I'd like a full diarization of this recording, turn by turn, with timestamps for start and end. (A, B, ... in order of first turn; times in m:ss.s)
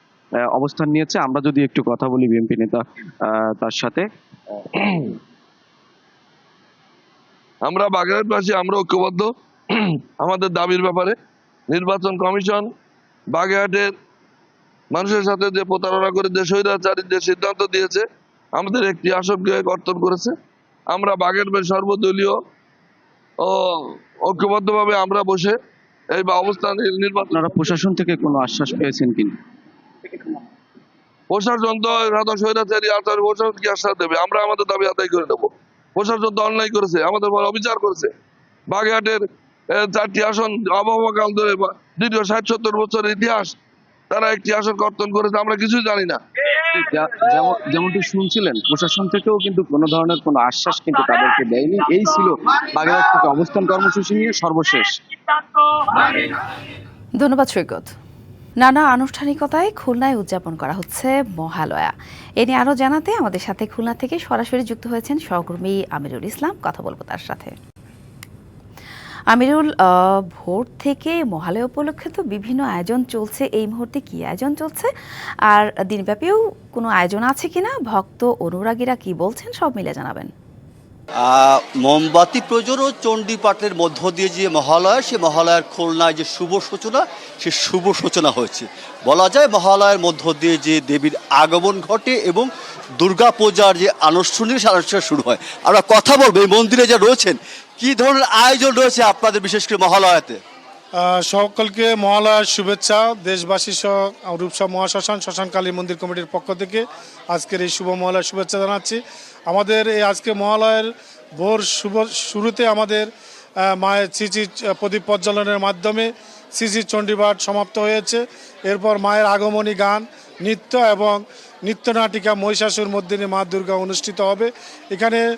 0:00.6-0:02.8 A
0:03.6-0:04.0 A
0:07.7-0:09.3 B
0:10.2-0:11.1 B
0:11.7-0:12.7 B
0:13.4-0:13.9 B
0:14.9-0:18.0 B
0:18.6-0:20.3 B
0:20.9-0:22.4 B
0:23.4-0:23.8 B
0:24.3-0:25.5 B
0:26.2-0:27.3 B
0:27.3-0:29.3 A
0:31.3-0:38.1 B
0:38.7-0:39.2 B
0:39.8-0:43.5 B
0:44.1-0:46.2 B
0:46.9-0:52.3 A
0:52.8-0:54.8 A
0:57.2-0:57.9 C
0:58.6-1:07.5 C
1:09.3-1:14.9 C
1:15.5-1:20.3 C
1:21.2-1:32.5 D
1:33.0-1:40.4 D
1:41.0-1:53.1 E
1:53.8-2:05.2 E